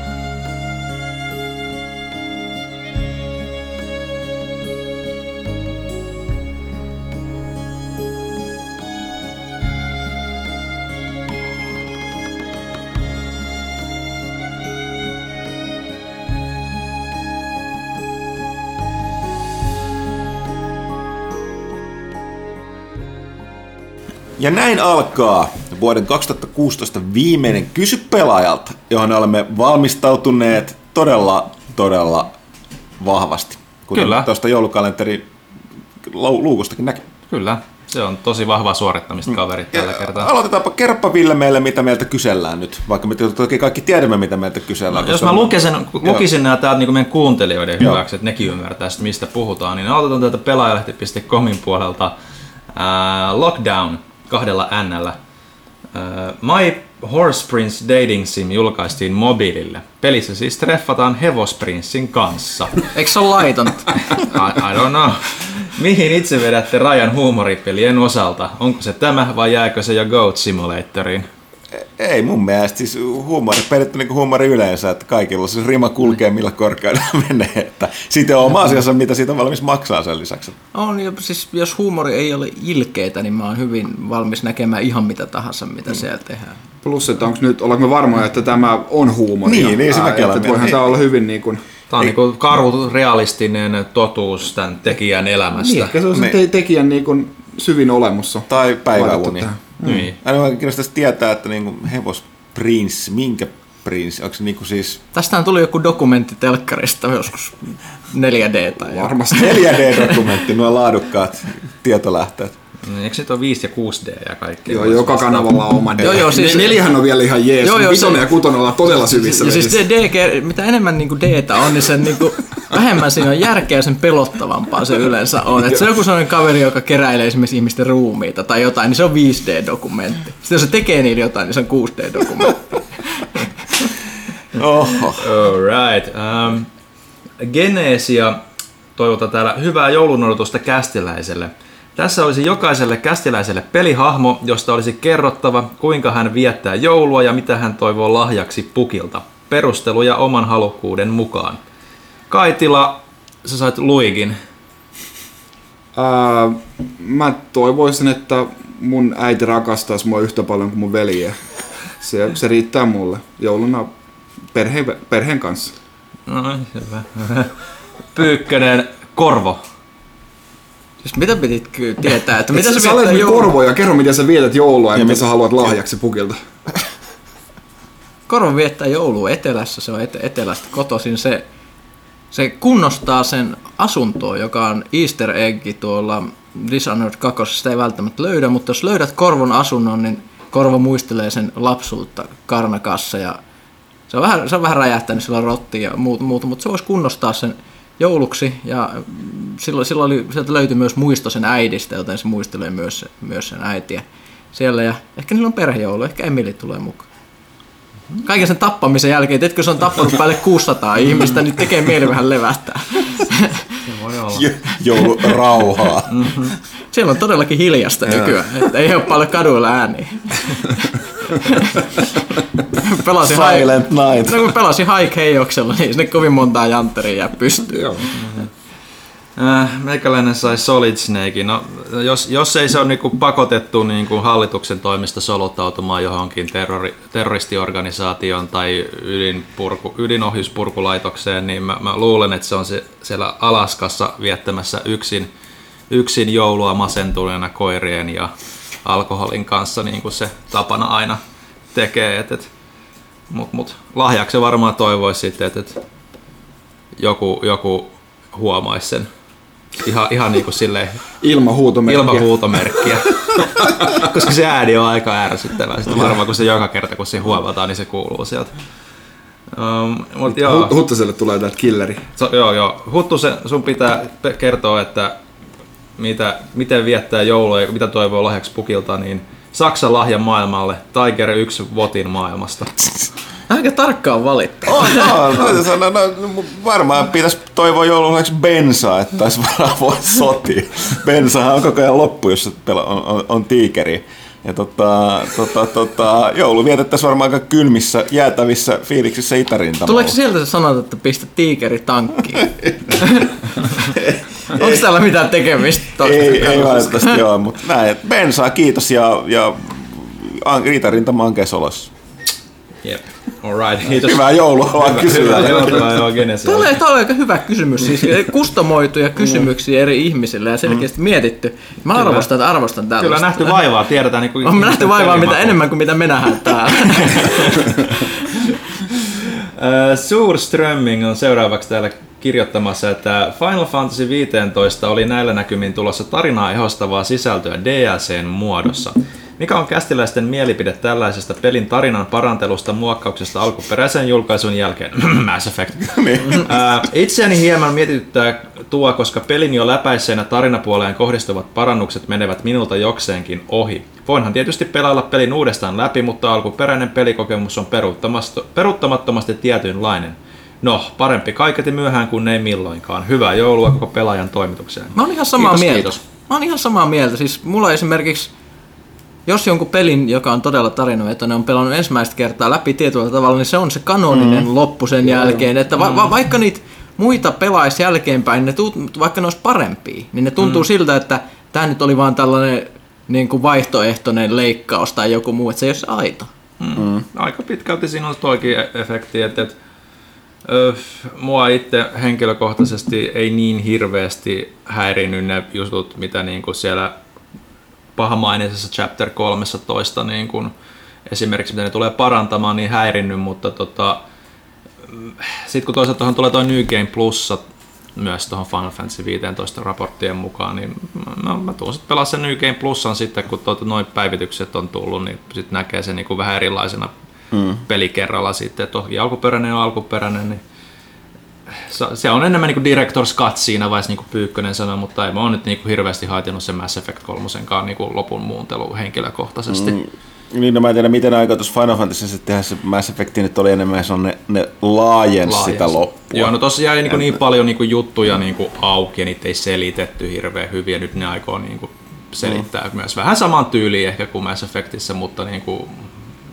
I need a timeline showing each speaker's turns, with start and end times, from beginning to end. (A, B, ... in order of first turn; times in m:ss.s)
0:24.4-0:32.3 A
0:33.0-0:35.3 A
0:33.9-0:34.3 B
0:36.0-0:37.1 A
0:37.3-0:40.3 B
0:39.7-0:46.2 A
0:44.9-0:52.2 B
0:52.7-0:55.2 B
0:55.9-1:02.9 B
1:02.9-1:04.0 C
1:04.1-1:11.3 B
1:11.7-1:20.6 A
1:20.7-1:26.6 C
1:26.8-1:31.6 D
1:29.4-1:31.0 A
1:31.9-1:36.0 B
1:35.6-1:40.1 D
1:36.1-1:36.4 A
1:38.5-1:45.0 A
1:39.8-1:40.1 B
1:45.1-1:50.2 C
1:48.8-1:49.8 D
1:49.4-1:52.5 A
1:52.8-1:55.7 B
1:54.7-1:59.9 D
1:56.0-1:56.8 C
1:57.6-1:58.3 C
1:59.2-2:12.8 C
2:14.5-2:15.3 A
2:15.2-2:16.7 B
2:17.4-2:18.4 B
2:19.0-2:31.6 B
2:32.3-2:34.4 B
2:36.0-2:41.4 D
2:42.0-2:43.9 D
2:44.5-2:45.7 D
2:46.3-2:47.5 B
2:48.1-2:49.6 B
2:51.0-2:53.5 C
2:52.5-2:56.4 D
2:54.9-2:55.2 A
2:58.3-3:01.4 C
3:02.3-3:13.4 C
3:14.1-3:24.0 C
3:24.5-3:27.1 C
3:28.2-3:33.7 C
3:33.8-3:34.5 B
3:34.3-3:36.5 A
3:36.1-3:36.6 B
3:36.9-3:40.8 C
3:38.1-3:38.4 A
3:41.4-3:42.1 C
3:42.8-3:48.1 C
3:43.2-3:44.6 A
3:47.7-3:48.1 D
3:48.2-3:48.5 B
3:49.4-4:05.3 B
4:05.9-4:08.3 B
4:08.8-4:11.2 B
4:11.7-4:12.5 B
4:13.3-4:15.8 B
4:17.0-4:19.1 B
4:19.8-4:21.0 B
4:21.2-4:24.0 D
4:21.8-4:28.5 B
4:29.5-4:30.8 B
4:30.3-4:32.0 D
4:32.2-4:35.2 B
4:36.0-4:43.1 B
4:43.5-4:45.4 C
4:44.7-5:00.2 A
4:59.8-5:03.4 C
5:02.6-5:03.1 A
5:03.9-5:04.8 A
5:04.5-5:07.2 C
5:06.0-5:11.9 A
5:12.8-5:16.7 B
5:13.9-5:16.1 A
5:16.4-5:23.6 C
5:21.9-5:22.3 B
5:23.0-5:25.6 B
5:24.4-5:27.7 C
5:26.8-5:28.4 B
5:29.1-6:06.0 B
5:45.8-5:46.8 A
6:05.0-6:08.3 C
6:09.3-6:26.3 C
6:14.1-6:14.5 A
6:15.2-6:15.4 D
6:15.8-6:16.1 B
6:26.6-6:29.6 B
6:26.8-6:27.0 A
6:30.4-6:37.0 B
6:38.0-6:40.5 B
6:41.1-6:44.0 B
6:44.9-6:47.4 B
6:48.0-6:56.9 B
6:57.3-6:57.6 A
6:57.7-7:00.4 B
7:01.6-7:09.8 B
7:09.5-7:16.3 A
7:15.2-7:25.9 B
7:16.9-7:17.2 A